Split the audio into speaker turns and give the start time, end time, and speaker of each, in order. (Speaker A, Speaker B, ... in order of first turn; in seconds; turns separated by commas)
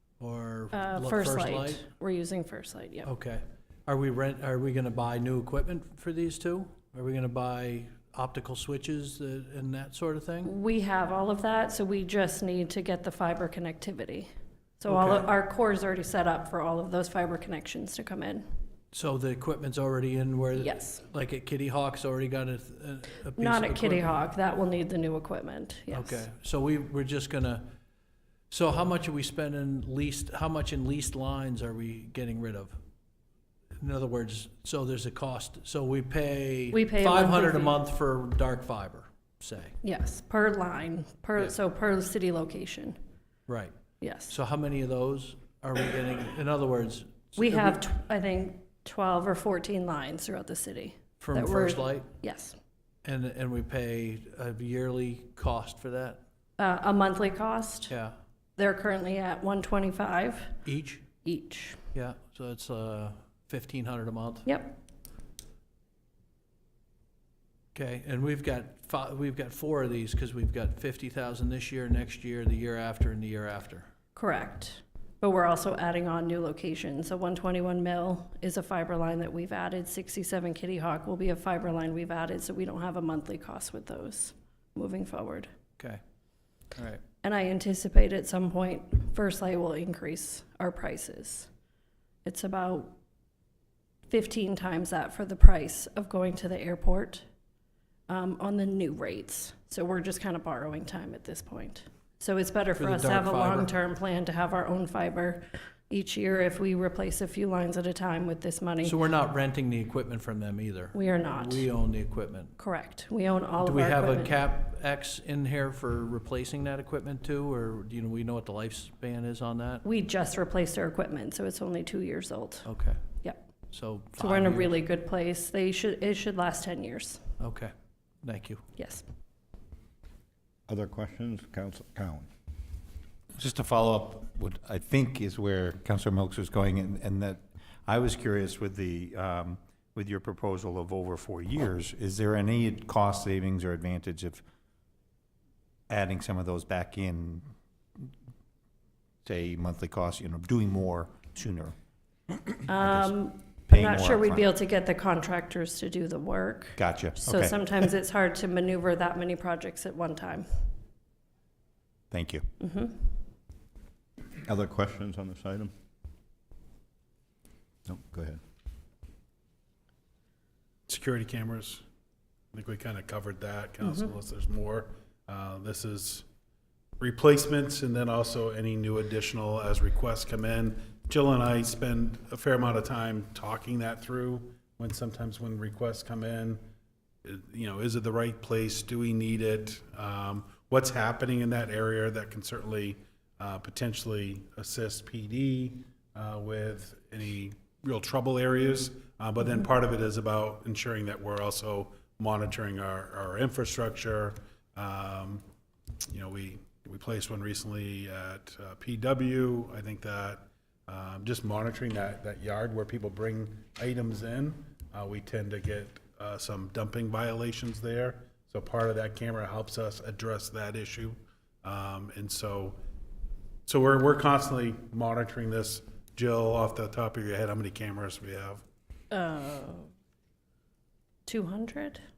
Speaker A: 0.2-1.8, Speaker B: 0.7-3.1, Speaker A: 3.0-10.5, Speaker B: 10.4-14.3, Speaker B: 14.8-18.4, Speaker A: 14.9-15.3, Speaker A: 18.9-24.1, Speaker B: 20.6-21.0, Speaker B: 23.4-26.2, Speaker A: 25.9-27.7, Speaker A: 28.5-32.8, Speaker A: 33.8-39.8, Speaker B: 36.7-37.8, Speaker B: 39.8-43.0, Speaker A: 43.5-43.7, Speaker B: 44.0-44.3, Speaker A: 44.3-47.8, Speaker B: 47.4-52.5, Speaker A: 51.2-52.1, Speaker A: 53.0-56.2, Speaker B: 56.6-57.9, Speaker A: 57.9-58.1, Speaker B: 58.6-60.5, Speaker A: 60.6-61.1, Speaker B: 61.2-61.8, Speaker A: 61.9-64.5, Speaker B: 64.5-64.8, Speaker A: 67.7-73.9, Speaker B: 74.1-85.5, Speaker A: 86.7-87.0, Speaker B: 87.2-91.5, Speaker B: 92.2-92.9, Speaker B: 94.1-97.2, Speaker B: 98.1-109.0, Speaker A: 102.8-103.7, Speaker A: 108.8-112.5, Speaker B: 110.9-111.7, Speaker B: 112.6-114.4, Speaker A: 113.6-119.8, Speaker B: 119.8-122.7, Speaker A: 122.7-123.0, Speaker A: 123.7-124.8, Speaker B: 124.2-127.2, Speaker A: 127.4-128.6, Speaker B: 128.8-129.0, Speaker C: 130.7-132.3, Speaker D: 133.4-144.4, Speaker D: 145.9-147.4, Speaker D: 149.2-151.8, Speaker B: 152.7-160.5, Speaker D: 152.7-154.4, Speaker D: 156.8-157.7, Speaker D: 162.1-162.4, Speaker B: 162.6-163.0, Speaker C: 164.5-165.7, Speaker C: 167.8-168.4, Speaker E: 170.9-171.8, Speaker E: 172.5-176.2, Speaker B: 173.8-174.1, Speaker E: 177.0-186.6, Speaker E: 187.2-205.4, Speaker E: 206.1-222.8, Speaker E: 223.7-228.6, Speaker B: 229.1-229.9, Speaker B: 231.2-232.0